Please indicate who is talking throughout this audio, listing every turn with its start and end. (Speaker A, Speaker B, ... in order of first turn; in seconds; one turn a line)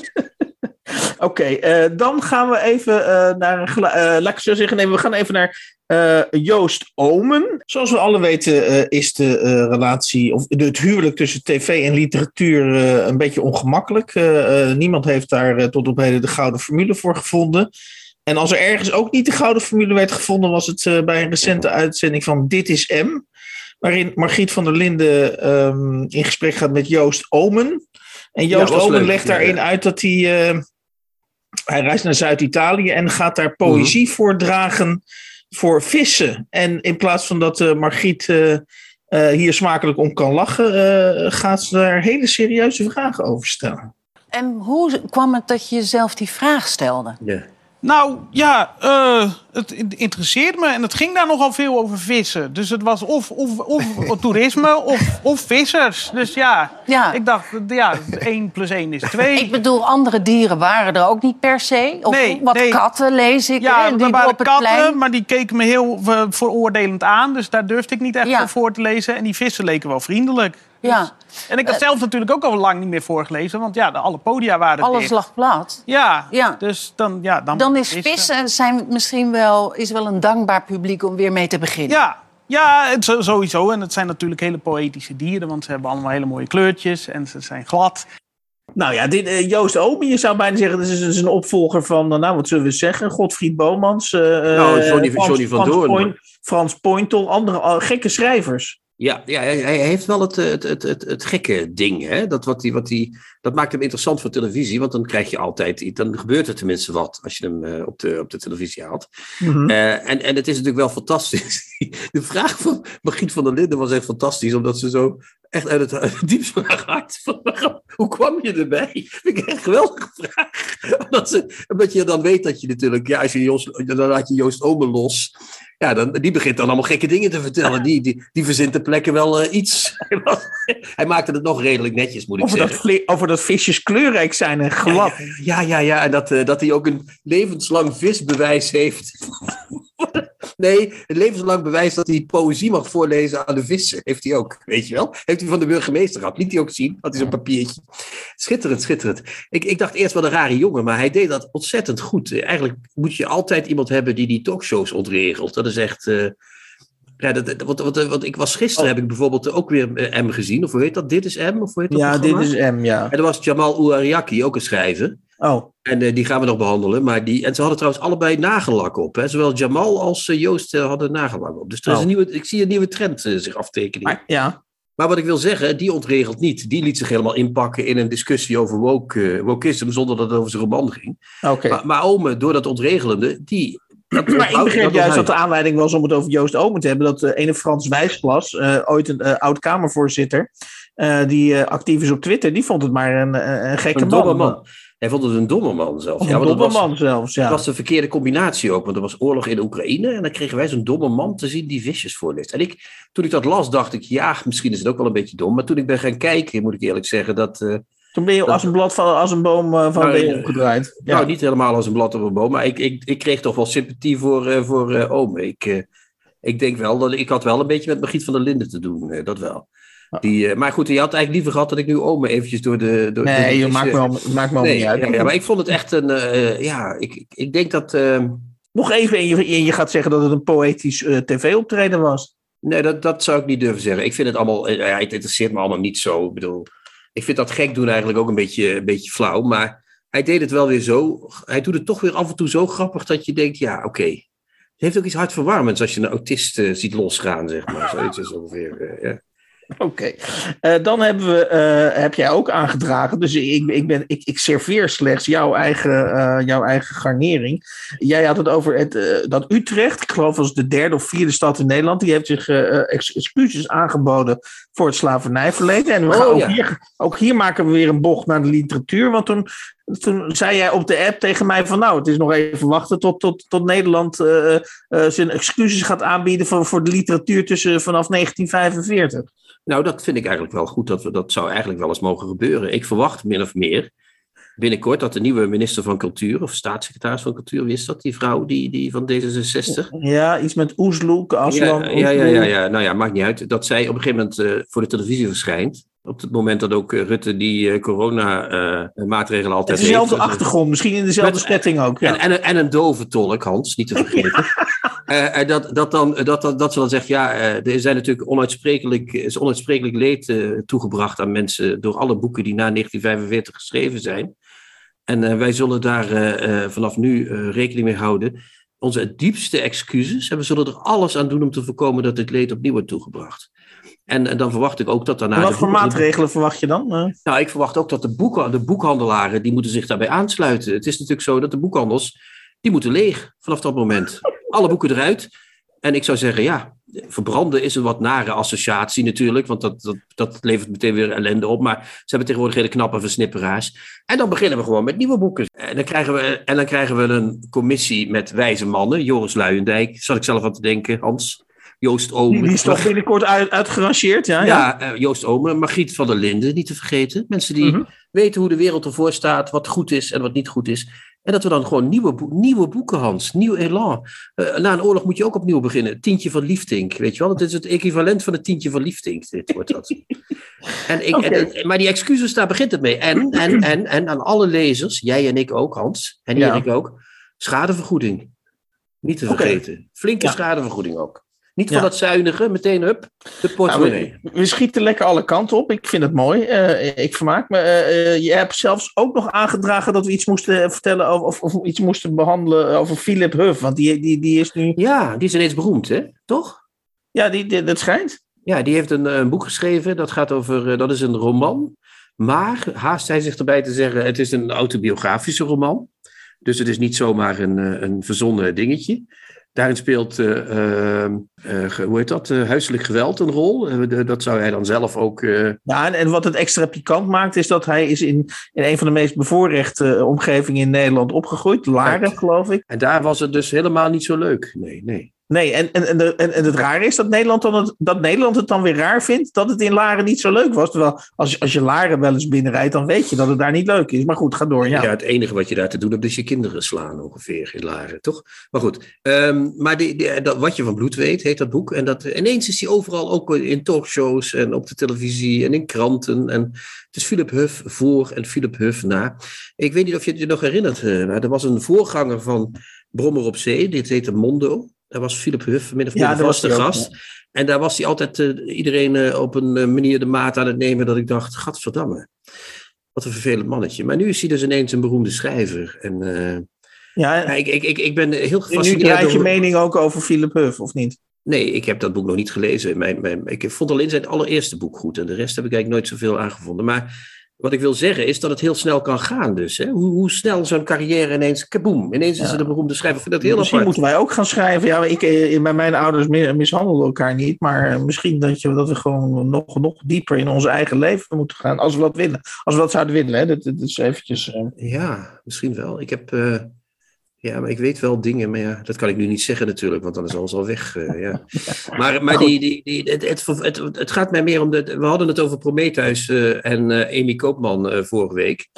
Speaker A: 1.0-17.7
Speaker A: 18.2-23.2
Speaker A: 23.8-27.8
Speaker A: 28.4-30.6
Speaker B: 28.5-29.6
Speaker A: 31.7-35.0
Speaker B: 33.6-33.9
Speaker A: 35.5-43.9
Speaker C: 44.3-47.2
Speaker B: 47.2-47.5
Speaker D: 47.8-59.6
Speaker C: 56.9-57.2
Speaker C: 59.3-65.0
Speaker D: 62.0-62.8
Speaker D: 63.6-75.1
Speaker C: 68.2-68.5
Speaker C: 70.8-71.1
Speaker C: 74.8-76.6
Speaker D: 75.9-78.3
Speaker C: 77.5-82.0
Speaker D: 81.9-88.0
Speaker A: 88.7-98.8
Speaker B: 94.5-96.1
Speaker B: 99.0-109.1
Speaker A: 109.4-109.7
Speaker B: 109.6-132.8
Speaker A: 132.4-135.2
Speaker B: 134.8-147.8
Speaker B: 148.4-156.3
Speaker B: 157.2-162.5
Speaker A: 161.9-163.1
Speaker B: 163.1-165.2
Speaker A: 165.4-165.7
Speaker B: 165.8-174.2
Speaker A: 174.0-174.6
Speaker B: 175.0-181.2
Speaker A: 181.4-181.8
Speaker B: 181.7-185.3
Speaker A: 184.1-194.6
Speaker B: 193.9-196.9
Speaker A: 196.2-197.6
Speaker B: 197.5-207.8
Speaker A: 208.1-211.3
Speaker B: 209.9-215.8
Speaker B: 216.4-219.7
Speaker B: 220.2-224.0
Speaker A: 223.2-225.3
Speaker B: 224.6-228.5
Speaker A: 228.7-232.3
Speaker B: 232.6-244.2
Speaker B: 244.8-249.2
Speaker A: 249.8-279.3
Speaker B: 266.1-266.6
Speaker B: 279.7-283.9
Speaker B: 284.6-289.9
Speaker A: 289.8-292.5
Speaker B: 291.5-300.4
Speaker A: 299.7-302.2
Speaker B: 301.2-314.3
Speaker A: 304.1-304.4
Speaker B: 315.1-323.5
Speaker B: 324.1-326.0
Speaker A: 325.4-327.1
Speaker B: 327.2-335.3
Speaker B: 335.8-352.9
Speaker A: 352.3-354.6
Speaker B: 354.4-370.0
Speaker B: 370.9-378.3
Speaker A: 371.1-371.5
Speaker A: 376.4-376.6
Speaker B: 379.0-384.2
Speaker A: 379.3-379.6
Speaker A: 383.6-394.8
Speaker B: 394.8-396.6
Speaker A: 397.1-398.2
Speaker B: 398.4-405.9
Speaker B: 406.4-415.6
Speaker A: 415.7-422.6
Speaker B: 421.8-422.1
Speaker B: 422.7-425.1
Speaker A: 425.3-434.9
Speaker B: 434.7-462.1
Speaker A: 455.9-456.9
Speaker B: 462.9-466.4
Speaker A: 467.0-467.3
Speaker B: 467.2-469.3
Speaker A: 468.5-471.0
Speaker B: 471.2-483.7
Speaker A: 482.2-482.5
Speaker A: 483.2-494.5
Speaker B: 494.6-496.5
Speaker B: 497.2-508.5